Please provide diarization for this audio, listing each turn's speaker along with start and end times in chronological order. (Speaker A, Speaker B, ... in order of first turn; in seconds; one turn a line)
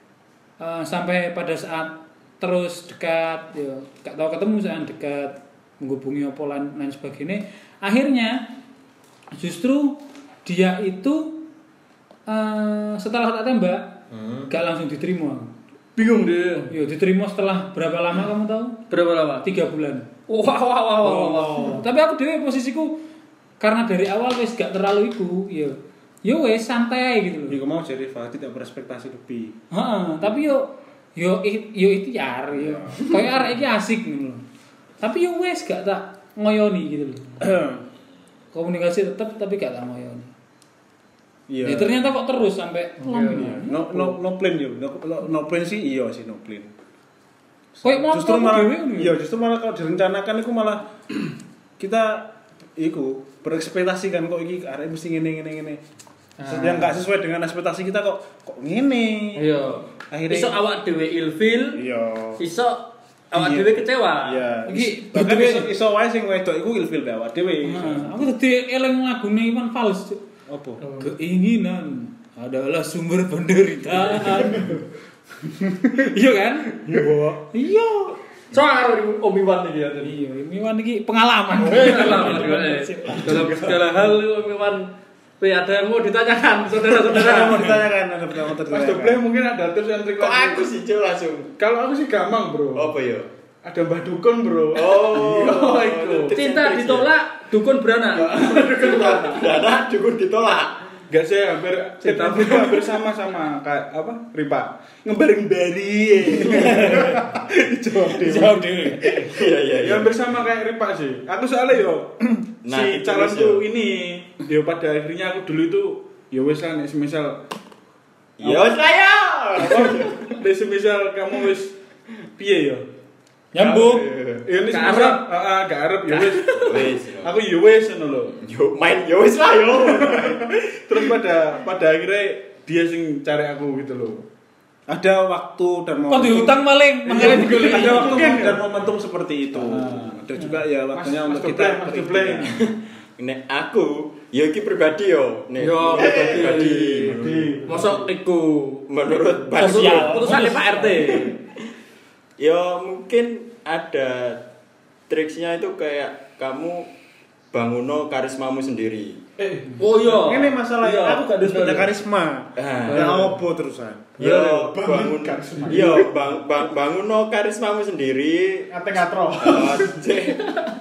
Speaker A: 0.6-8.5
Speaker A: 9.3-11.4
Speaker A: 12.3-15.5
Speaker B: 14.2-14.4
Speaker C: 16.0-16.7
Speaker A: 16.7-18.8
Speaker C: 18.9-19.5
Speaker A: 19.4-20.1
Speaker C: 20.3-21.8
Speaker A: 21.0-23.0
Speaker A: 23.6-27.6
Speaker D: 27.5-29.6
Speaker A: 29.7-34.4
Speaker D: 32.5-33.0
Speaker A: 35.0-37.4
Speaker D: 37.4-37.9
Speaker A: 38.5-40.3
Speaker D: 41.5-42.0
Speaker A: 41.6-44.1
Speaker C: 43.0-43.6
Speaker D: 43.3-46.7
Speaker D: 47.8-50.9
Speaker A: 47.8-49.2
Speaker D: 51.8-55.8
Speaker D: 56.5-59.5
Speaker C: 59.4-61.8
Speaker D: 60.1-60.6
Speaker D: 61.7-62.4
Speaker C: 62.4-64.4
Speaker D: 63.3-68.3
Speaker A: 64.7-65.7
Speaker A: 67.6-70.2
Speaker D: 70.5-70.8
Speaker C: 70.8-71.1
Speaker A: 71.0-74.8
Speaker A: 76.0-78.2
Speaker D: 76.9-77.1
Speaker E: 77.0-77.3
Speaker C: 78.5-80.1
Speaker A: 80.0-83.7
Speaker C: 81.6-87.8
Speaker D: 87.0-89.2
Speaker E: 88.6-90.7
Speaker B: 90.2-91.6
Speaker E: 91.6-92.9
Speaker B: 92.7-93.3
Speaker E: 93.7-96.4
Speaker B: 94.7-97.1
Speaker C: 96.3-99.5
Speaker E: 98.1-99.3
Speaker B: 98.5-100.7
Speaker E: 101.1-107.2
Speaker D: 106.3-109.1
Speaker A: 106.5-107.2
Speaker A: 108.3-109.0
Speaker B: 109.2-110.3
Speaker E: 109.8-112.2
Speaker B: 112.7-113.6
Speaker E: 112.7-117.4
Speaker B: 118.4-120.4
Speaker E: 119.7-121.8
Speaker E: 122.4-122.9
Speaker A: 123.5-124.1
Speaker B: 123.6-124.5
Speaker E: 124.5-128.4
Speaker C: 124.7-125.3
Speaker C: 126.1-126.9
Speaker B: 126.5-127.4
Speaker B: 128.4-131.0
Speaker E: 130.0-134.2
Speaker D: 134.9-142.6
Speaker A: 136.1-138.3
Speaker E: 137.1-138.7
Speaker E: 139.6-140.2
Speaker E: 140.9-142.6
Speaker B: 142.5-147.6
Speaker C: 145.6-148.8
Speaker E: 146.0-148.1
Speaker B: 148.9-150.4
Speaker C: 149.5-151.4
Speaker A: 149.6-151.3
Speaker B: 152.4-154.4
Speaker B: 155.1-156.9
Speaker B: 157.5-159.2
Speaker E: 159.4-160.3
Speaker C: 159.8-161.9
Speaker D: 160.2-164.2
Speaker B: 162.6-163.3
Speaker C: 162.9-163.3
Speaker B: 164.2-168.7
Speaker E: 164.2-166.2
Speaker E: 168.7-169.9
Speaker B: 169.3-170.5